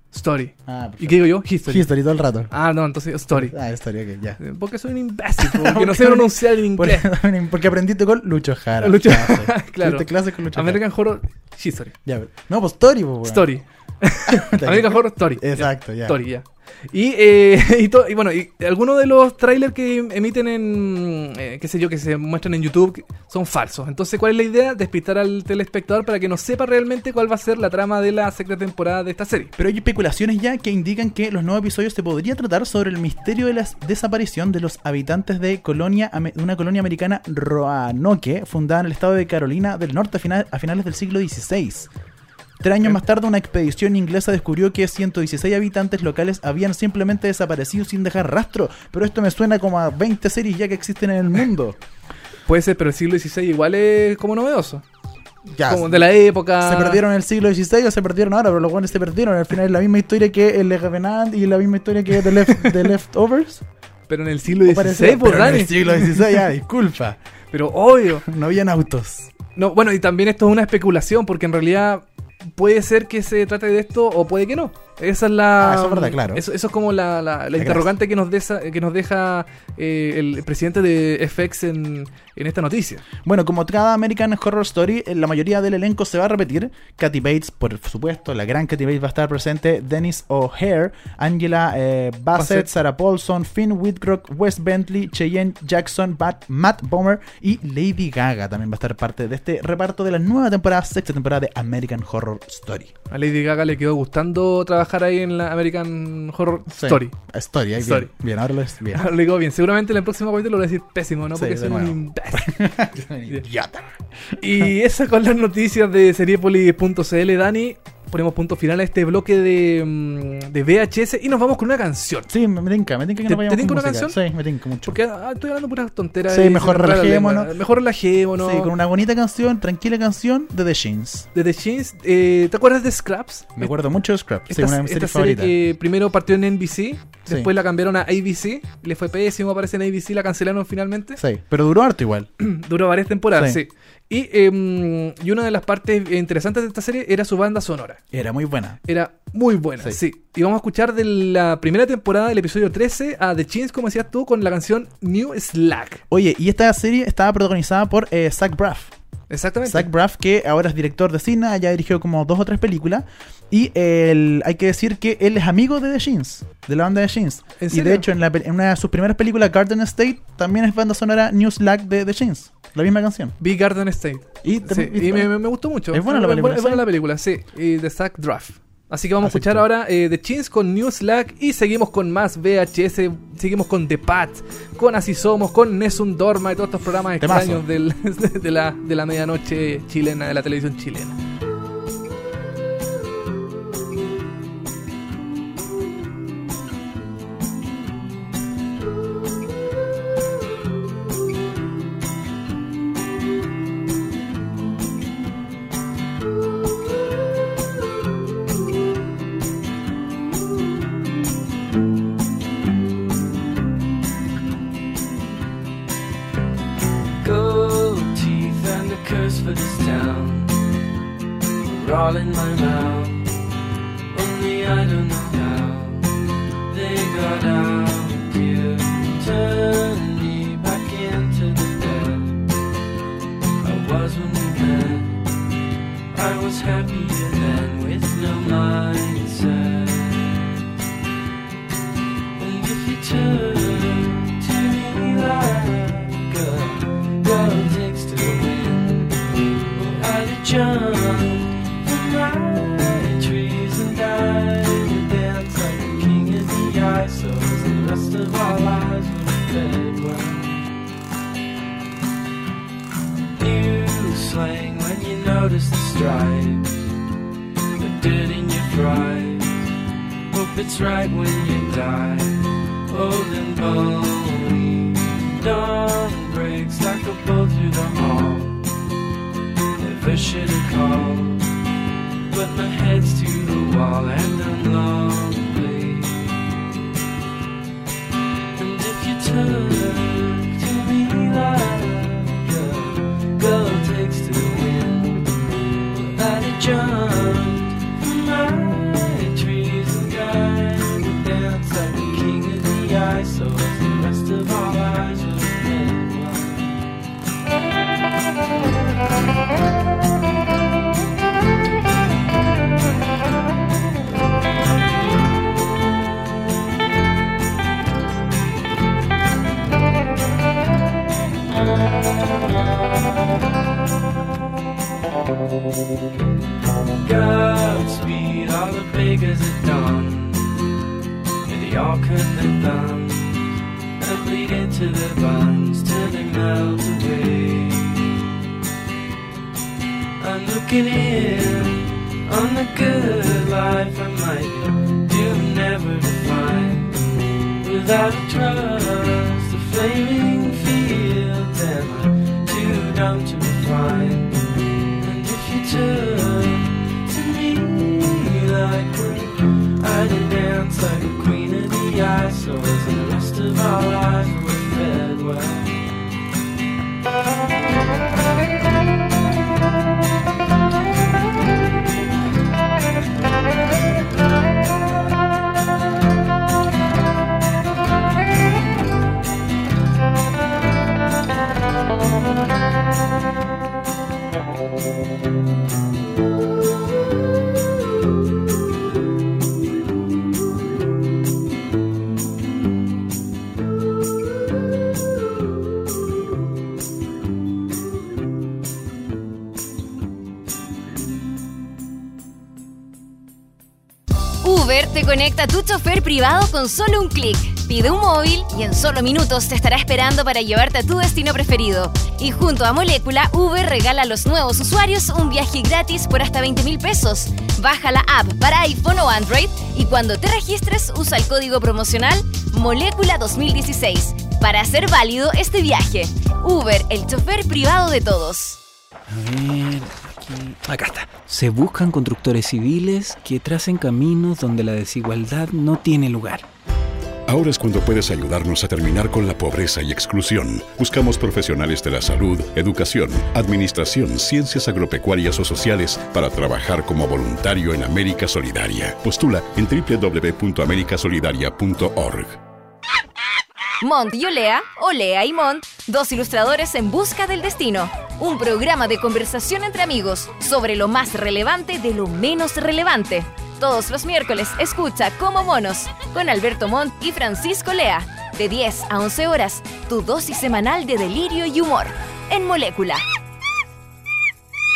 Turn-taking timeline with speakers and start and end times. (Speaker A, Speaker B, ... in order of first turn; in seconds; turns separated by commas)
Speaker A: 0.1-1.9, Speaker B: 0.7-2.5, Speaker A: 2.5-3.5, Speaker B: 3.3-4.4, Speaker A: 4.4-7.1, Speaker B: 5.4-10.8, Speaker A: 8.8-11.9, Speaker B: 12.0-13.5, Speaker A: 13.2-29.5, Speaker B: 14.3-16.2, Speaker B: 29.6-41.9, Speaker B: 42.6-51.8, Speaker A: 52.5-54.8, Speaker B: 55.5-63.6, Speaker A: 55.6-57.0, Speaker A: 64.1-66.3, Speaker B: 64.6-67.2, Speaker A: 67.5-68.3, Speaker B: 68.2-69.3, Speaker A: 69.5-72.0, Speaker A: 72.5-83.0, Speaker B: 75.6-76.4, Speaker B: 77.5-77.9, Speaker B: 83.2-102.9, Speaker A: 92.3-92.7, Speaker A: 103.1-107.2, Speaker B: 106.7-109.0, Speaker A: 107.8-108.1, Speaker A: 108.9-112.7, Speaker B: 111.3-114.7, Speaker A: 114.4-122.3, Speaker B: 122.3-125.0, Speaker A: 123.3-124.2, Speaker A: 124.8-128.7, Speaker B: 126.3-127.5, Speaker B: 128.4-131.3, Speaker A: 131.3-133.7, Speaker B: 133.6-135.5, Speaker A: 134.5-141.2, Speaker B: 141.2-142.3, Speaker A: 142.4-148.0, Speaker B: 143.3-143.6, Speaker B: 148.1-148.8, Speaker A: 148.8-156.0, Speaker B: 156.1-158.9, Speaker A: 159.3-159.9, Speaker B: 159.6-173.3, Speaker A: 167.6-168.1, Speaker A: 173.4-191.2, Speaker B: 174.4-176.9, Speaker B: 179.2-179.6, Speaker B: 187.2-187.6, Speaker C: 217.2-220.6, Speaker C: 221.6-223.3, Speaker C: 224.1-226.1, Speaker C: 226.7-232.4, Speaker C: 233.6-235.2, Speaker C: 236.1-240.6, Speaker C: 242.3-260.7, Speaker C: 263.4-266.8, Speaker C: 267.8-269.6, Speaker C: 270.3-278.6, Speaker C: 279.7-281.4, Speaker C: 282.3-286.4, Speaker C: 288.6-295.3, Speaker C: 295.8-306.8, Speaker C: 326.9-330.7, Speaker C: 331.4-338.1, Speaker C: 340.2-365.9, Speaker D: 404.4-428.6, Speaker E: 429.1-436.5, Speaker F: 437.3-452.4, Speaker D: 453.8-473.0